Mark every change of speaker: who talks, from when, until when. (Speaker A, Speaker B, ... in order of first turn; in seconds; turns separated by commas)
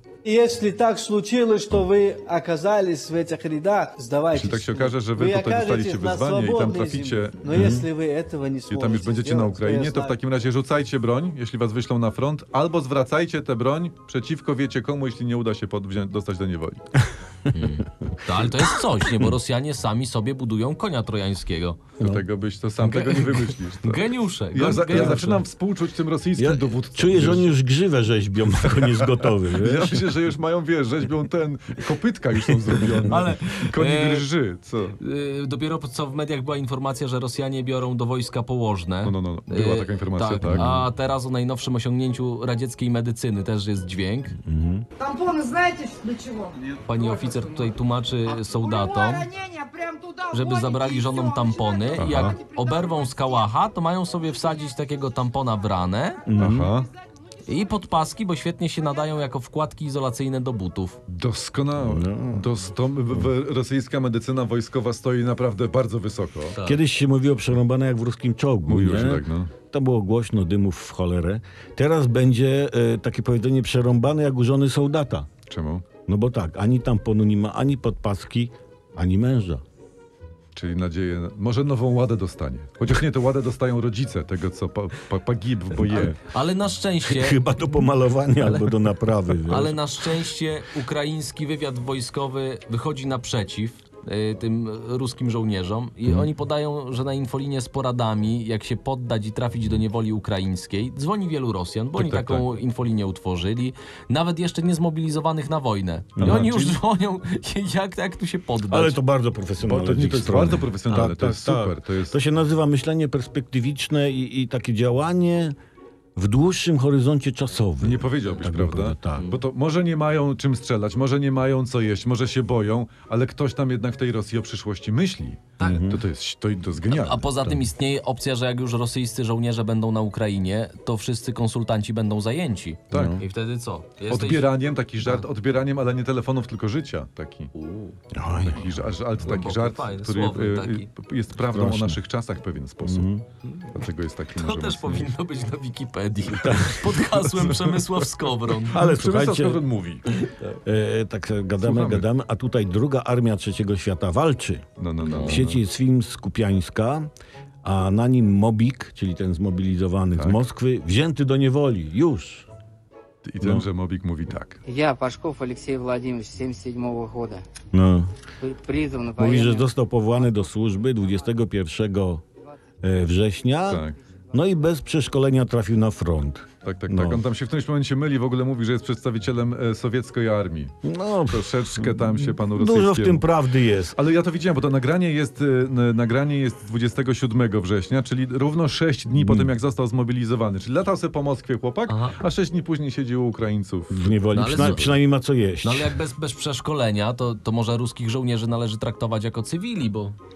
Speaker A: 0.2-10.2, Speaker B: 4.3-7.8, Speaker C: 7.5-7.8, Speaker B: 8.7-16.8, Speaker D: 17.5-21.8, Speaker C: 17.6-19.2, Speaker B: 22.0-27.5, Speaker D: 22.8-25.4, Speaker C: 24.9-25.2, Speaker C: 26.4-30.1, Speaker B: 29.0-35.0, Speaker D: 33.1-34.3, Speaker D: 35.0-44.4, Speaker B: 39.0-40.7, Speaker C: 40.5-40.8, Speaker C: 44.4-44.9, Speaker E: 45.0-47.7, Speaker D: 46.9-49.3, Speaker E: 48.3-53.4, Speaker D: 50.3-56.2, Speaker B: 52.0-52.4, Speaker C: 56.3-56.7, Speaker B: 56.4-56.9, Speaker D: 57.5-61.0, Speaker B: 61.1-66.6, Speaker C: 61.8-62.5, Speaker D: 66.5-66.8, Speaker C: 66.6-75.3, Speaker B: 68.7-69.5, Speaker B: 75.5-75.8, Speaker C: 76.1-79.6, Speaker B: 80.5-86.2, Speaker C: 85.8-86.2, Speaker D: 86.2-87.4, Speaker C: 87.0-89.8, Speaker D: 89.5-109.0, Speaker B: 102.0-102.5, Speaker C: 106.2-106.5, Speaker B: 106.2-106.8, Speaker C: 108.7-115.6, Speaker B: 109.6-112.2, Speaker C: 116.2-119.3, Speaker B: 117.8-127.6, Speaker D: 125.6-125.8, Speaker C: 125.6-126.0, Speaker D: 126.9-134.5, Speaker B: 132.9-133.2, Speaker C: 132.9-133.2, Speaker B: 134.1-137.5, Speaker D: 137.5-138.0, Speaker C: 138.1-138.9, Speaker B: 138.4-143.1, Speaker D: 139.2-140.9, Speaker C: 141.5-142.0, Speaker C: 142.8-143.2, Speaker B: 143.7-145.1, Speaker D: 144.4-148.8, Speaker C: 146.3-147.0, Speaker B: 147.0-148.1, Speaker C: 148.7-149.6, Speaker B: 148.7-150.1, Speaker D: 150.1-150.6, Speaker C: 150.7-157.1, Speaker B: 151.6-152.1, Speaker B: 154.8-155.6, Speaker D: 155.0-155.4, Speaker C: 157.6-162.5, Speaker B: 163.2-164.6, Speaker E: 164.7-167.4, Speaker C: 167.7-168.1, Speaker E: 168.4-169.7, Speaker C: 169.2-172.2, Speaker C: 172.8-177.2, Speaker B: 173.7-174.0, Speaker B: 176.6-180.7, Speaker C: 180.8-184.0, Speaker B: 181.3-183.3, Speaker B: 183.9-194.8, Speaker C: 189.1-189.5, Speaker D: 191.9-192.2, Speaker C: 193.9-196.0, Speaker D: 194.3-195.0, Speaker D: 195.6-200.2